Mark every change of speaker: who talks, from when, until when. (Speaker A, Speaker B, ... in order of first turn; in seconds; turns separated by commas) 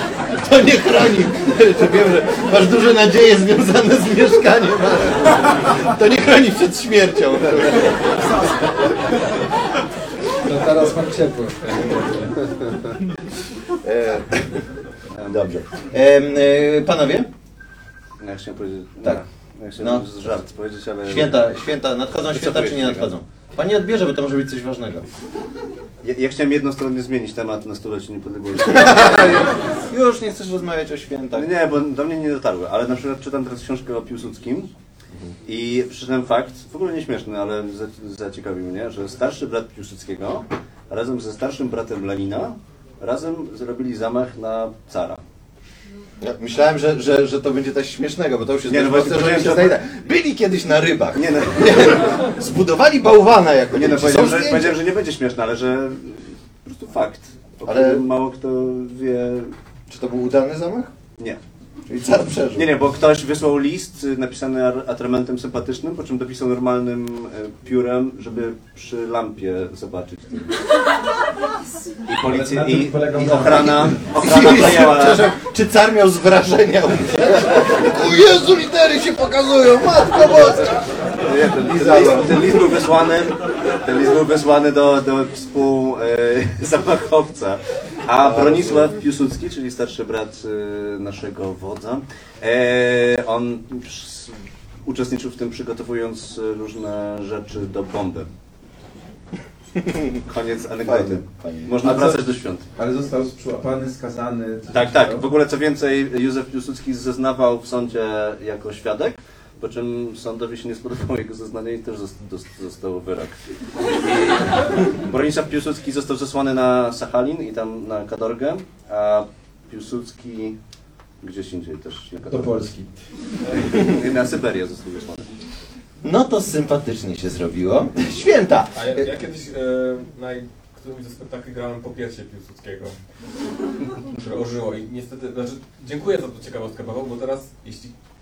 Speaker A: 0.3-8.7, Speaker B: 10.4-12.7, Speaker A: 13.8-14.6, Speaker C: 15.1-15.5, Speaker A: 15.3-17.3, Speaker C: 18.2-21.5, Speaker A: 19.8-20.4, Speaker A: 21.0-25.1, Speaker C: 22.3-23.1, Speaker C: 26.0-29.5, Speaker A: 28.6-31.5, Speaker C: 31.3-34.7, Speaker C: 35.4-45.2, Speaker A: 46.2-54.7, Speaker C: 48.7-49.8, Speaker C: 51.1-52.1, Speaker C: 53.7-59.5, Speaker A: 57.6-58.0, Speaker A: 59.9-60.9, Speaker A: 61.9-62.7, Speaker C: 62.5-70.5, Speaker C: 72.0-75.3, Speaker D: 72.2-74.0, Speaker A: 73.3-80.9, Speaker C: 80.2-98.3, Speaker A: 81.6-82.5, Speaker A: 88.2-88.9, Speaker C: 100.2-102.7, Speaker A: 100.8-101.9, Speaker D: 101.8-102.2, Speaker D: 102.8-105.2, Speaker C: 104.7-120.6, Speaker C: 121.2-122.6, Speaker D: 122.3-122.9, Speaker C: 123.5-125.4, Speaker A: 126.0-129.1, Speaker E: 128.7-133.0, Speaker E: 134.1-137.9